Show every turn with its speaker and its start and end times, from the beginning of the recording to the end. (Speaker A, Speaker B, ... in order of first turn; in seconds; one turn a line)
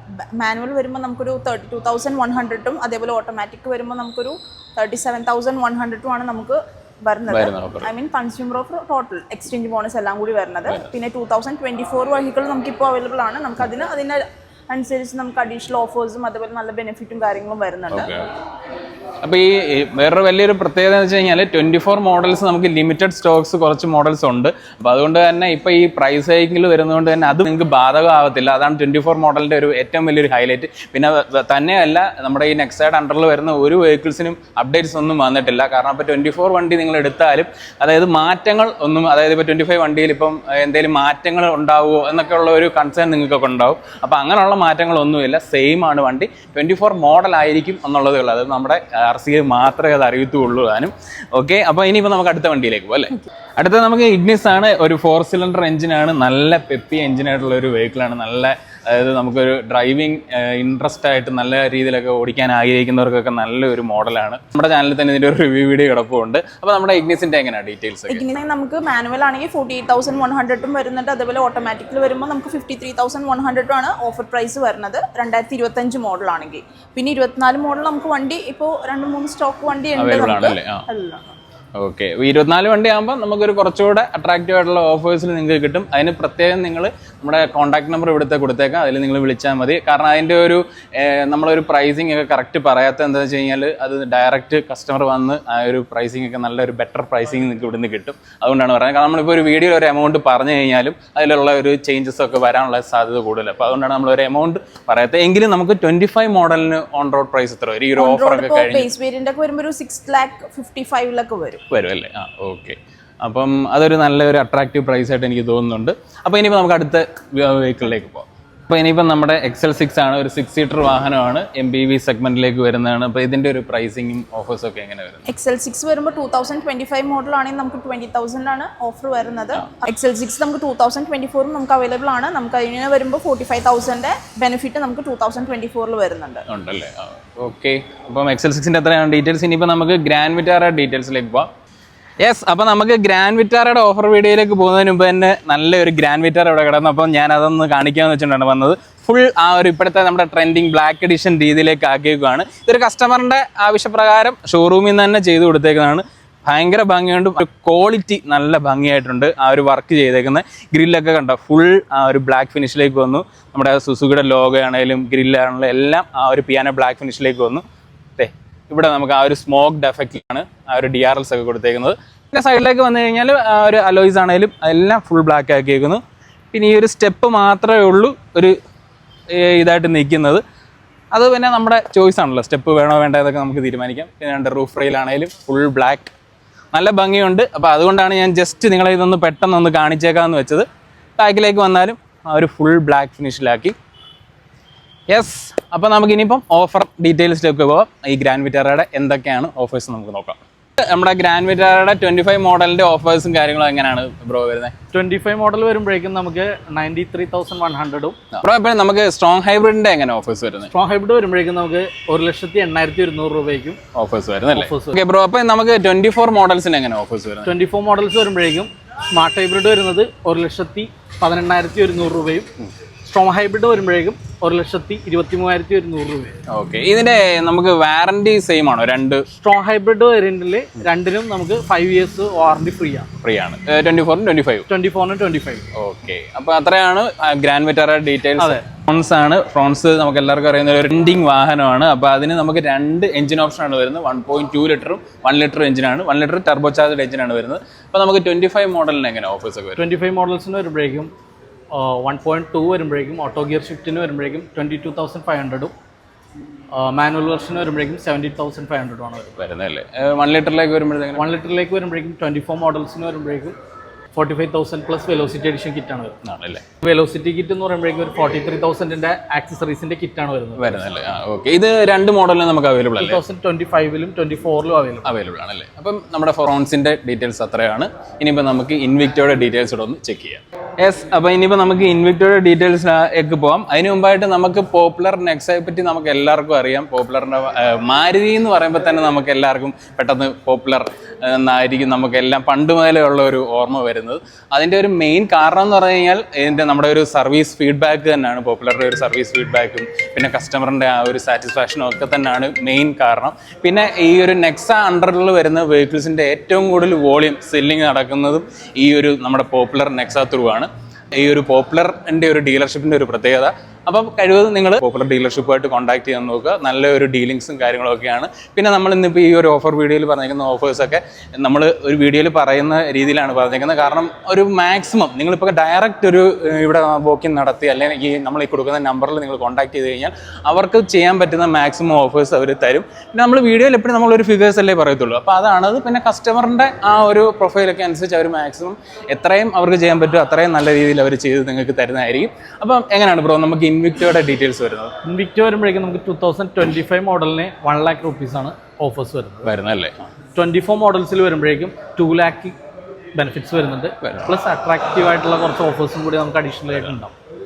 Speaker A: 0.3-18.1
Speaker B: 7.3-7.9
Speaker B: 17.9-18.2
Speaker B: 19.2-68.2
Speaker A: 68.1-81.3
Speaker B: 80.0-80.8
Speaker B: 81.8-108.9
Speaker A: 108.0-111.6
Speaker B: 111.7-125.2
Speaker A: 125.3-136.4
Speaker B: 136.5-141.5
Speaker B: 142.2-167.6
Speaker B: 168.2-176.0
Speaker B: 176.5-178.6
Speaker B: 179.3-180.4
Speaker B: 181.1-186.1
Speaker B: 186.7-190.7
Speaker B: 191.2-193.7
Speaker B: 195.1-204.7
Speaker C: 204.9-208.2
Speaker B: 208.3-210.7
Speaker C: 210.7-213.8
Speaker B: 213.9-217.5
Speaker C: 214.5-215.0
Speaker C: 217.4-222.5
Speaker C: 223.0-226.3
Speaker B: 226.5-229.2
Speaker C: 229.3-233.1
Speaker B: 233.2-234.7
Speaker C: 234.7-235.7
Speaker B: 235.7-249.8
Speaker C: 249.8-251.1
Speaker C: 251.7-255.7
Speaker C: 256.7-259.3
Speaker B: 259.4-261.2
Speaker C: 261.2-263.6
Speaker C: 264.1-266.1
Speaker B: 266.2-266.6
Speaker C: 266.8-270.7
Speaker B: 270.6-273.2
Speaker C: 273.0-275.1
Speaker B: 275.0-344.9
Speaker C: 345.0-349.5
Speaker B: 349.4-349.9
Speaker C: 350.3-352.6
Speaker C: 353.1-357.1
Speaker B: 354.0-354.3